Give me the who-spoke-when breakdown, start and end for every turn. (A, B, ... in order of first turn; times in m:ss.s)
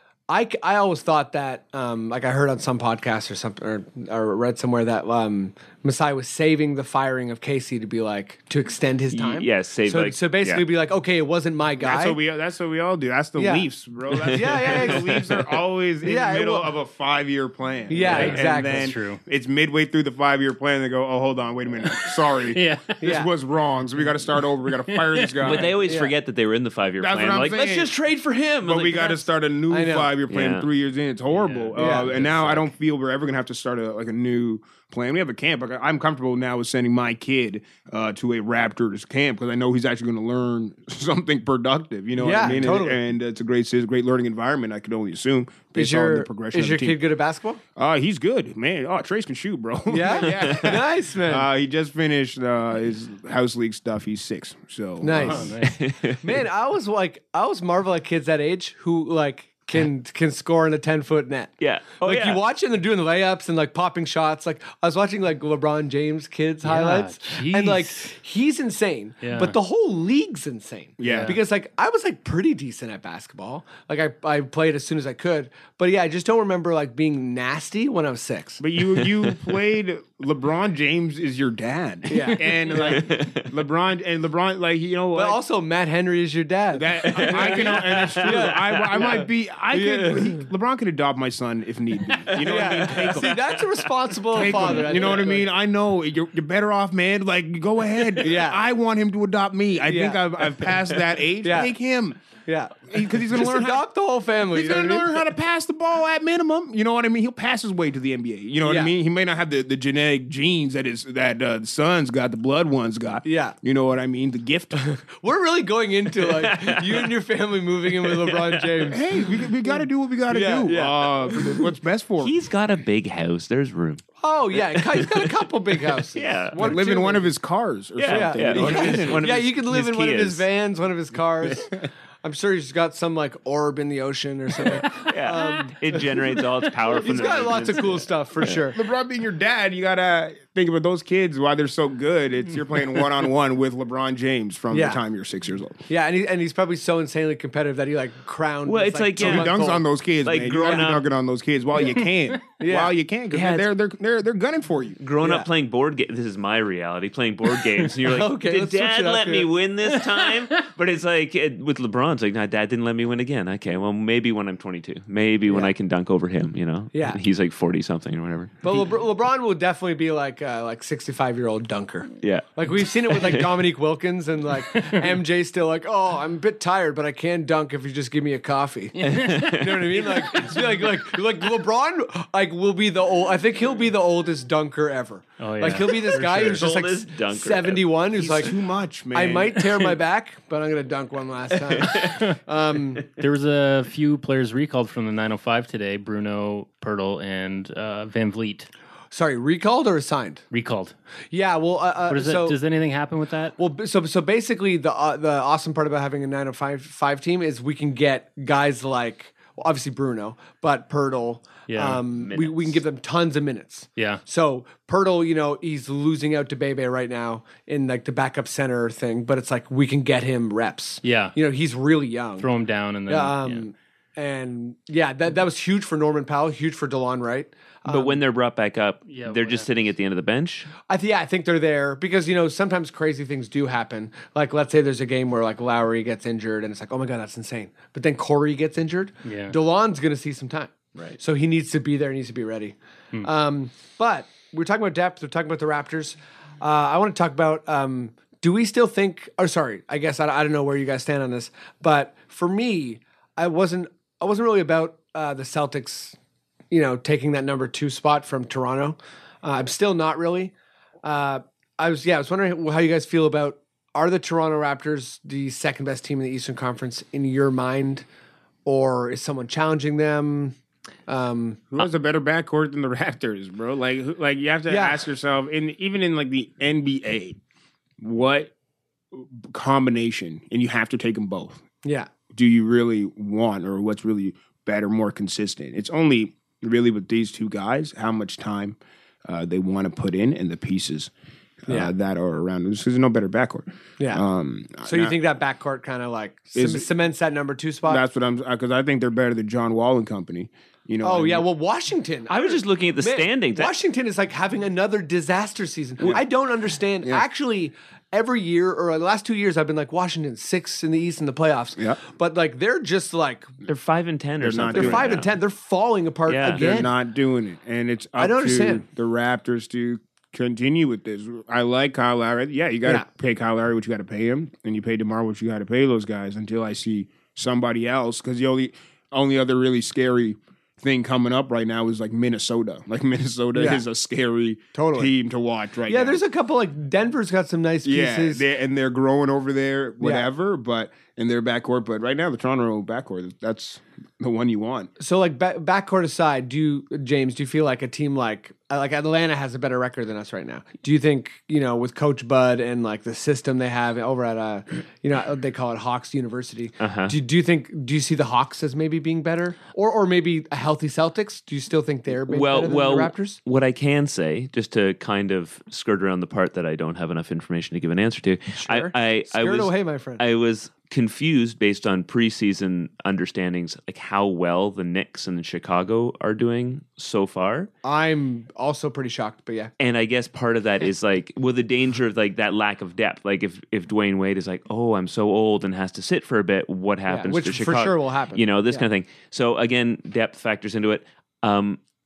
0:00.3-0:12.2 A
0:09.1-0:10.6 B
0:11.8-0:25.8 C
0:13.4-0:13.7 A
0:14.1-0:15.4 B
0:14.3-0:15.2 A
0:16.0-0:16.7 A
0:17.9-0:18.9 A
0:18.0-0:19.2 D
0:22.5-0:23.0 D
0:23.0-0:23.3 A
0:24.9-0:25.7 D
0:25.4-0:29.3 B
0:25.8-0:26.1 A
0:27.0-0:27.9 C
0:28.6-0:47.0 C
0:29.7-0:30.1 A
0:30.3-0:30.7 B
0:31.3-0:32.6 D
0:31.8-0:32.1 A
0:42.2-0:43.0 A
0:45.8-0:47.6 A
0:47.8-0:55.5 C
0:49.9-0:51.5 A
0:50.3-0:50.8 B
0:55.0-0:55.6 A
0:55.2-0:55.8 D
0:55.7-0:56.2 B
0:56.2-1:18.6 A
1:01.6-1:02.4 B
1:06.6-1:08.1 D
1:09.2-1:09.6 D
1:11.0-1:11.4 C
1:11.0-1:11.4 D
1:18.6-1:25.4 C
1:22.1-1:23.0 A
1:22.8-1:23.5 B
1:25.1-1:30.5 A
1:26.7-1:33.5 C
1:27.1-1:29.1 B
1:32.2-1:33.6 B
1:32.4-1:35.5 A
1:34.3-1:42.2 C
1:34.4-1:34.8 B
1:38.2-1:38.6 A
1:39.8-1:40.4 A
1:41.4-1:41.7 A
1:42.5-1:45.2 A
1:42.9-1:43.8 C
1:44.5-1:54.8 C
1:48.6-1:48.9 A
1:53.2-1:53.6 A
1:54.8-1:59.0 A
1:56.3-1:57.1 B
1:58.3-1:58.6 B
1:58.8-2:02.4 C
1:59.6-2:01.6 A
2:02.2-2:04.0 B
2:04.2-2:07.3 A
2:04.7-2:05.3 B
2:06.1-2:06.8 B
2:06.6-2:09.3 C
2:08.0-2:10.4 B
2:08.1-2:11.7 A
2:12.2-2:16.0 A
2:14.8-2:18.6 B
2:16.9-2:18.8 A
2:18.6-2:25.8 C
2:24.7-2:25.0 A
2:25.9-2:29.8 A
2:28.7-2:29.7 B
2:29.2-2:35.0 C
2:30.2-2:31.0 B
2:30.6-2:30.9 A
2:32.6-2:32.9 A
2:33.3-2:33.7 B
2:35.0-2:48.7 B
2:35.2-2:35.5 A
2:38.0-2:39.5 A
2:46.9-2:47.2 A
2:48.6-3:08.6 A
2:52.2-2:53.5 B
2:59.0-2:59.5 D
2:59.0-3:00.6 B
3:05.4-3:06.6 D
3:05.8-3:07.9 B
3:08.1-3:09.8 C
3:09.1-3:13.1 A
3:11.6-3:12.2 B
3:13.2-3:18.7 D
3:19.1-3:20.4 A
3:20.5-3:21.0 D
3:21.3-3:22.6 A
3:22.1-3:23.6 D
3:23.6-3:42.5 A
3:31.7-3:32.0 D
3:32.1-3:32.8 B
3:34.0-3:34.2 D
3:41.0-3:41.4 D
3:42.4-3:43.6 D
3:43.1-3:48.2 A
3:47.9-3:50.7 B
3:49.1-3:49.7 D
3:50.9-4:16.2 A
3:59.2-3:59.6 D
4:16.7-4:28.1 A
4:28.6-4:30.6 A
4:31.1-4:31.7 A
4:31.7-4:37.4 C
4:34.7-4:35.0 A
4:38.0-4:38.5 C
4:39.1-4:41.6 C
4:41.8-4:42.1 A
4:42.3-4:51.1 C
4:51.6-4:55.2 C
4:54.8-4:58.0 A
4:56.6-4:56.9 C
4:57.9-5:01.5 C
5:01.0-5:13.5 A
5:02.3-5:03.7 B
5:13.7-5:15.3 B
5:14.4-5:15.2 C
5:14.7-5:16.9 A
5:16.3-5:16.7 B
5:16.5-5:36.2 C
5:18.2-5:18.8 A
5:33.5-5:33.8 A
5:34.7-5:35.1 A
5:35.9-5:38.5 A
5:37.8-5:44.9 C
5:40.0-5:40.3 A
5:45.0-6:03.4 A
5:56.8-5:57.2 B
6:02.3-6:17.7 B
6:08.6-6:10.2 A
6:17.8-6:19.7 A
6:19.8-6:31.8 B
6:27.1-6:28.9 A